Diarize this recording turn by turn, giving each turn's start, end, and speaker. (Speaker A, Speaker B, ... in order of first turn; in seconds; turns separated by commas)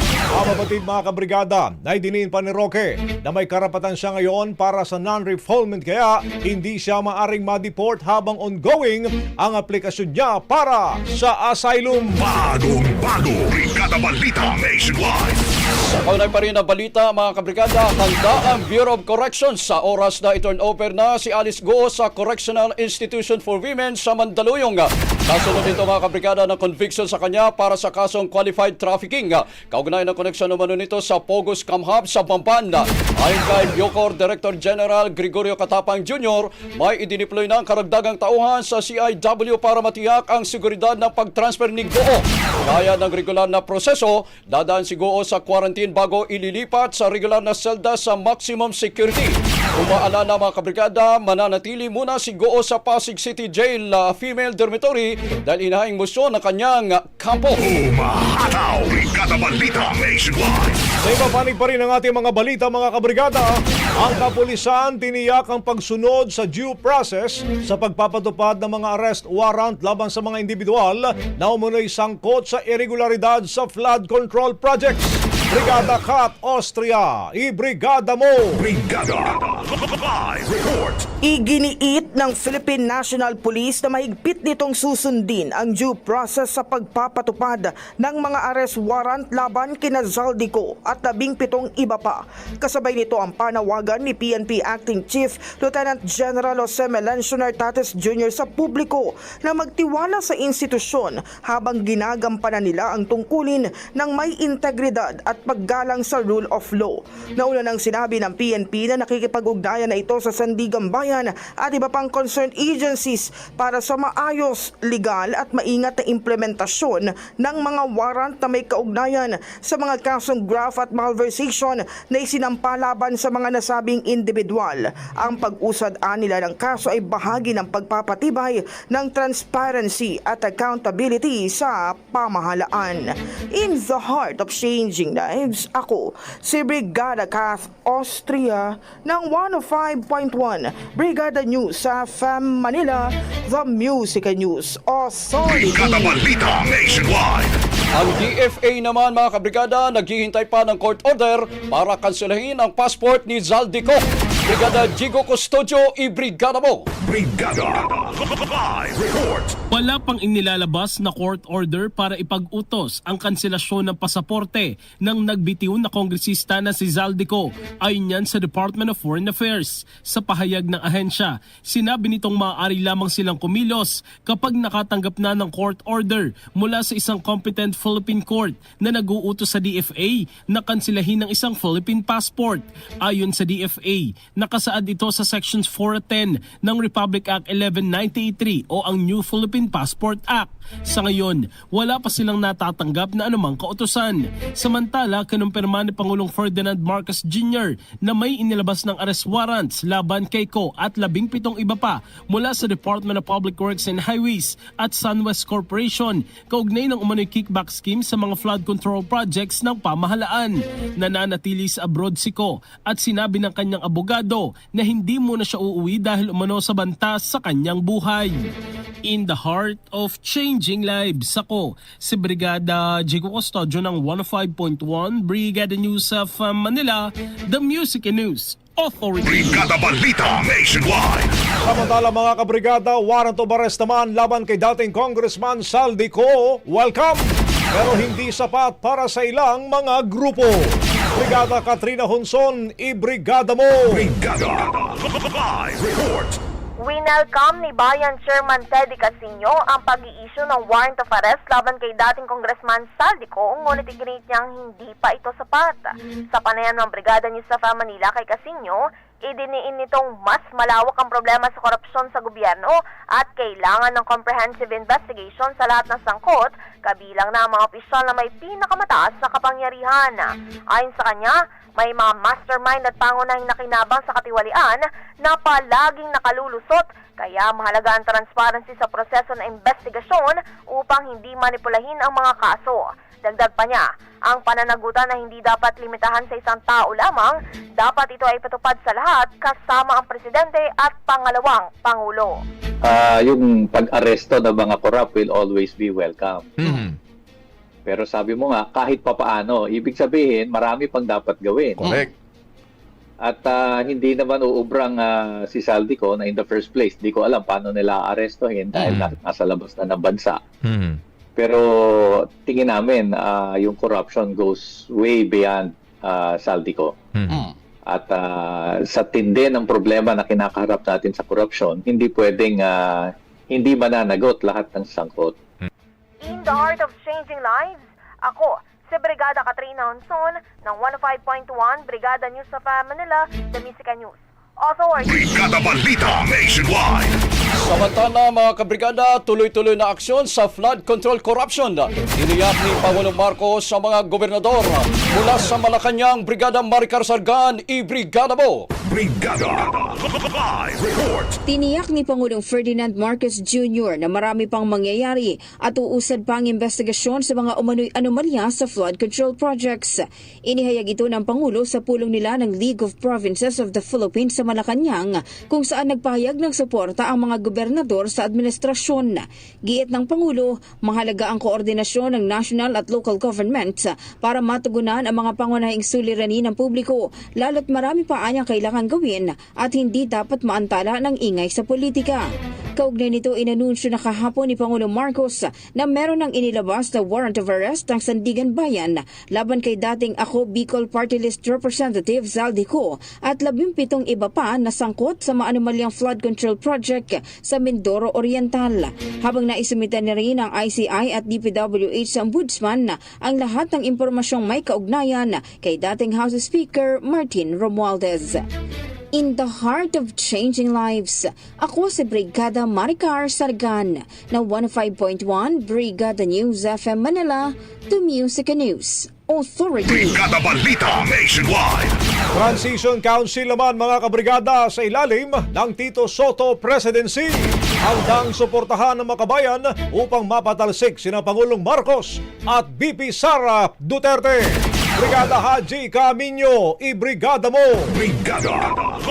Speaker A: 0.3-12.3, Speaker B: 12.2-15.4, Speaker C: 15.9-57.6, Speaker B: 57.6-60.8, Speaker A: 61.0-78.7, Speaker B: 78.6-81.0, Speaker D: 81.2-146.4, Speaker B: 145.7-147.5, Speaker C: 148.0-156.8, Speaker B: 157.1-159.6, Speaker E: 159.7-218.5, Speaker E: 219.1-229.7, Speaker B: 229.2-231.3, Speaker A: 231.6-244.1, Speaker B: 243.9-246.4, Speaker F: 246.8-292.4, Speaker G: 292.8-296.8, Speaker G: 297.9-302.1, Speaker G: 303.2-310.4, Speaker G: 311.4-325.4, Speaker F: 326.2-335.5, Speaker B: 335.3-337.1, Speaker C: 337.7-348.6, Speaker B: 348.9-351.4, Speaker H: 351.5-382.2, Speaker H: 382.8-408.4, Speaker H: 409.1-420.2, Speaker B: 419.9-421.9, Speaker A: 422.3-434.5, Speaker A: 435.0-438.0, Speaker B: 438.0-439.0